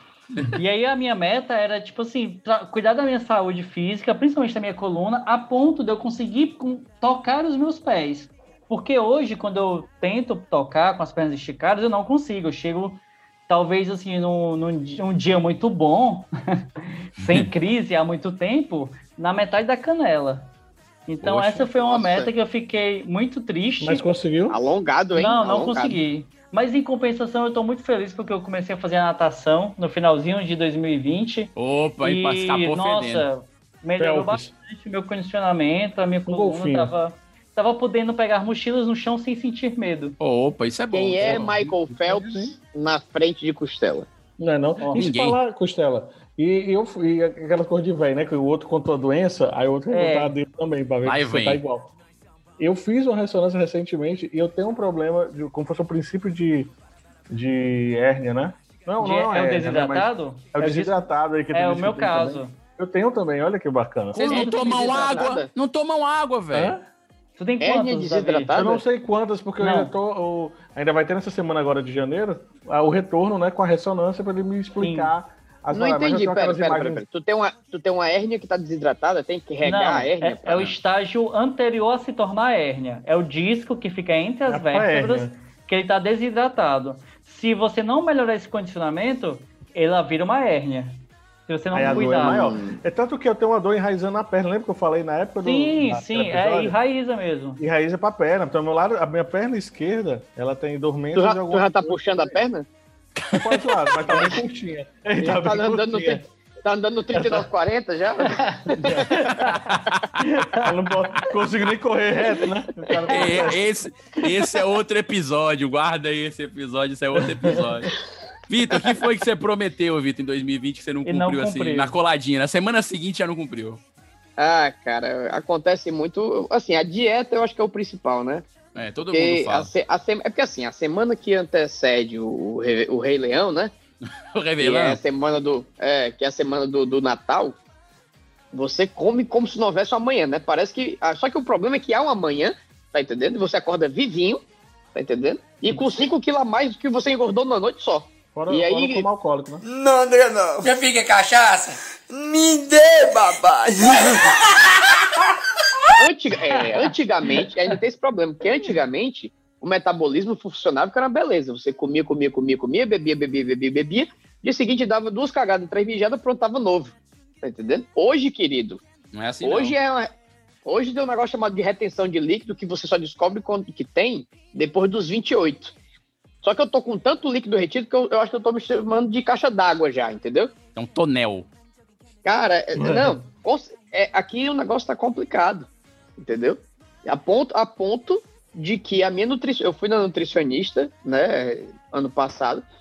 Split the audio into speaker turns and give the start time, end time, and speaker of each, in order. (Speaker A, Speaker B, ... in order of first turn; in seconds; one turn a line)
Speaker A: 0.5-16.3
Speaker A: 17.2-20.5
Speaker B: 17.2-17.5
Speaker A: 21.1-24.1
Speaker B: 21.2-21.7
Speaker C: 21.7-22.3
Speaker D: 23.8-24.6
Speaker C: 24.5-26.0
Speaker A: 25.1-40.2
Speaker B: 31.6-33.2
Speaker D: 34.0-34.5
Speaker D: 36.3-36.9
Speaker B: 40.2-41.5
Speaker C: 40.9-44.1
Speaker D: 41.2-42.5
Speaker D: 44.4-51.9
Speaker A: 44.8-45.1
Speaker B: 44.9-45.4
Speaker A: 49.9-50.3
Speaker B: 51.0-51.6
Speaker D: 52.6-56.7
Speaker D: 57.3-64.4
Speaker A: 59.0-61.0
Speaker A: 61.5-62.5
Speaker B: 64.1-66.7
Speaker C: 64.3-65.5
Speaker A: 64.3-65.2
Speaker D: 66.5-66.8
Speaker A: 67.4-68.5
Speaker C: 67.6-68.8
Speaker D: 68.5-77.0
Speaker A: 69.6-69.9
Speaker A: 74.8-75.1
Speaker C: 75.7-80.7
Speaker A: 79.6-92.4
Speaker D: 84.5-85.3
Speaker D: 91.7-96.8
Speaker C: 91.8-92.8
Speaker A: 95.4-97.6
Speaker D: 97.6-102.3
Speaker C: 101.1-102.7
Speaker D: 103.3-106.2
Speaker C: 104.1-104.4
Speaker C: 105.2-109.2
Speaker D: 107.1-107.5
Speaker D: 108.8-109.2
Speaker B: 109.7-110.0
Speaker A: 110.2-110.7
Speaker D: 110.5-113.6
Speaker B: 113.1-117.9
Speaker D: 117.2-117.7
Speaker B: 118.5-123.8
Speaker A: 121.0-121.9
Speaker C: 124.4-128.5
Speaker B: 128.8-129.7
Speaker C: 129.1-133.7
Speaker B: 134.3-135.0
Speaker C: 134.6-137.6
Speaker C: 138.5-144.4
Speaker C: 144.9-149.1
Speaker D: 148.3-149.6
Speaker E: 149.6-150.9
Speaker E: 152.1-154.4
Speaker C: 156.0-168.8
Speaker B: 169.1-169.8
Speaker C: 169.4-170.1
Speaker C: 170.6-175.7
Speaker C: 176.4-180.5
Speaker B: 180.7-181.5
Speaker C: 182.2-192.6
Speaker D: 182.8-183.2